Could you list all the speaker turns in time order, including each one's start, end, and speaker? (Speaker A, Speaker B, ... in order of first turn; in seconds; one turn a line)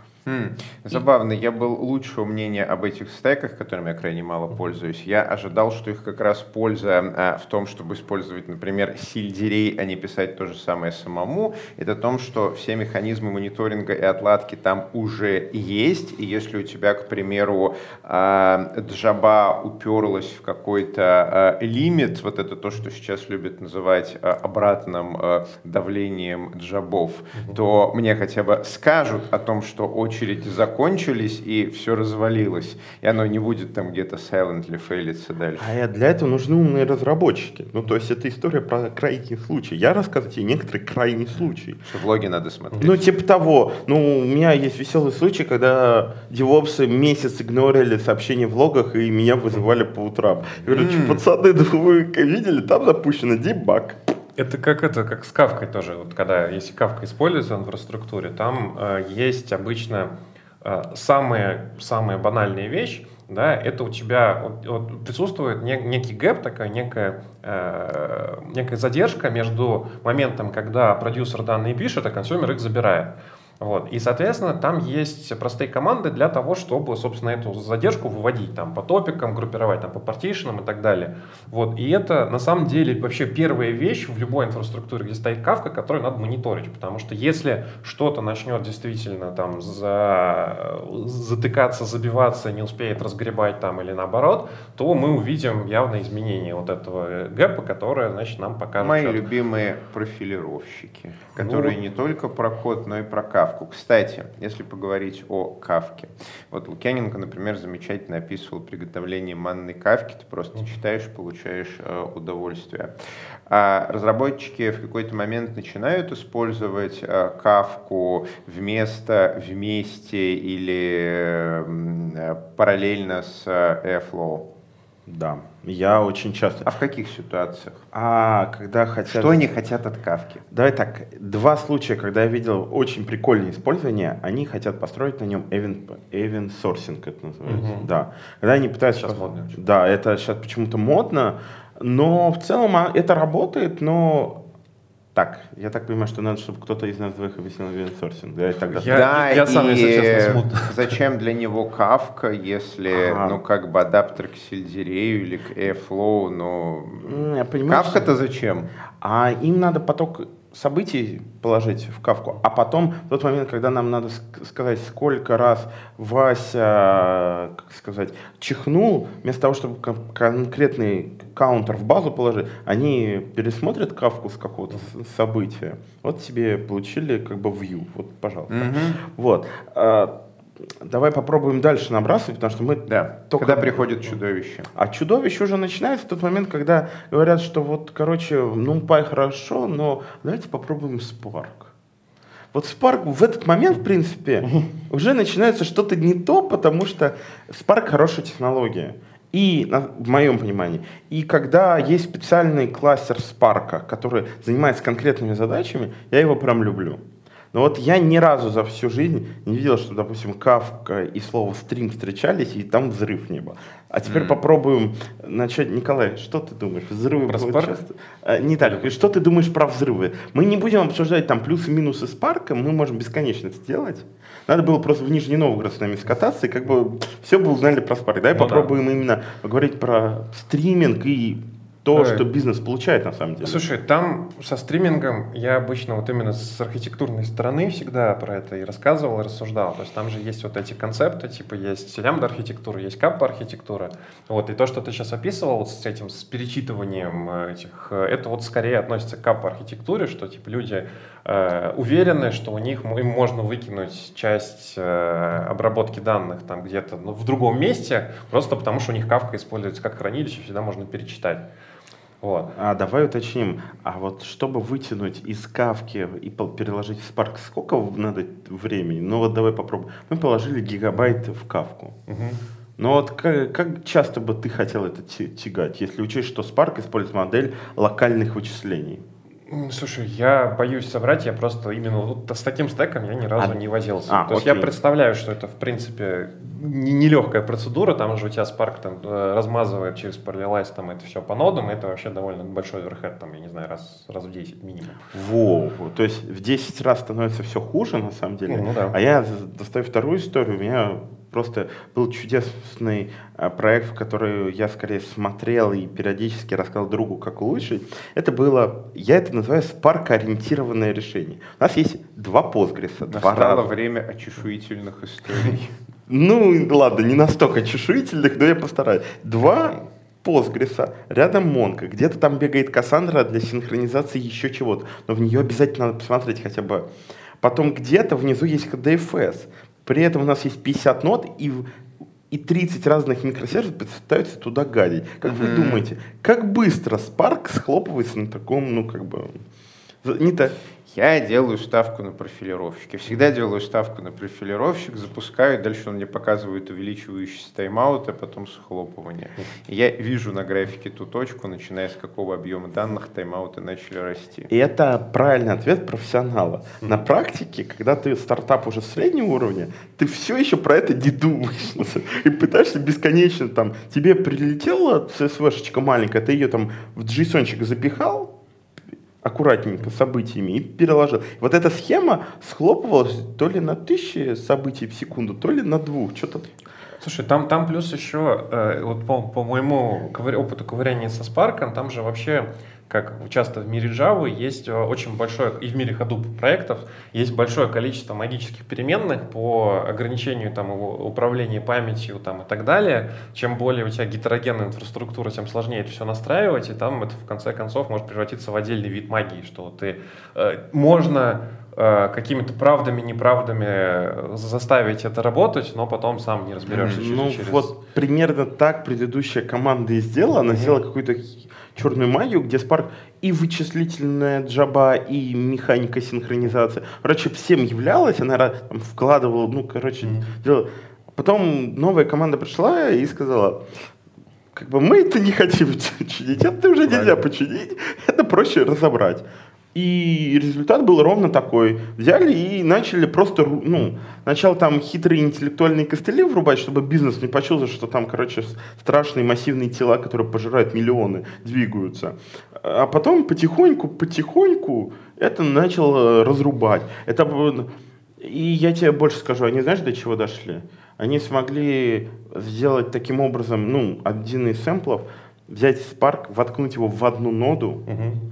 Speaker A: 0.2-35.7
Speaker B: 35.6-41.8
Speaker A: 41.8-43.0
Speaker B: 42.8-54.0
Speaker A: 50.7-51.2
Speaker C: 54.4-99.2
Speaker A: 98.8-112.9
Speaker C: 101.3-101.8
Speaker A: 113.5-124.5
Speaker B: 125.0-126.7
Speaker A: 126.6-127.8
Speaker B: 127.9-129.5
Speaker A: 129.1-130.4
Speaker B: 130.5-144.4
Speaker C: 137.4-137.9
Speaker C: 138.9-139.5
Speaker B: 145.1-149.0
Speaker C: 148.7-151.0
Speaker A: 148.8-158.7
Speaker B: 152.9-153.4
Speaker B: 157.0-158.1
Speaker B: 159.0-183.9
Speaker A: 178.5-179.0
Speaker A: 182.9-184.7
Speaker B: 184.8-191.7
Speaker B: 192.5-207.0
Speaker B: 207.5-233.6
Speaker A: 214.1-214.4
Speaker C: 217.2-217.8
Speaker C: 218.6-218.9
Speaker C: 228.3-228.7
Speaker C: 231.9-232.2
Speaker C: 233.4-261.4
Speaker C: 262.2-262.5
Speaker B: 262.6-271.9
Speaker C: 272.1-272.4
Speaker B: 272.8-279.0
Speaker C: 279.5-295.0
Speaker B: 283.4-284.7
Speaker B: 295.1-313.7
Speaker C: 298.5-299.0
Speaker A: 313.1-315.7
Speaker B: 316.1-326.9
Speaker B: 327.4-331.6
Speaker B: 332.3-339.4
Speaker A: 335.2-335.8
Speaker B: 340.0-340.6
Speaker A: 340.9-354.5
Speaker B: 354.5-368.3
Speaker B: 369.2-376.5
Speaker C: 377.0-407.7
Speaker A: 406.7-407.0
Speaker B: 406.8-423.6
Speaker C: 410.3-410.8
Speaker C: 420.0-420.3
Speaker B: 424.5-457.8
Speaker C: 426.9-427.2
Speaker C: 457.9-458.2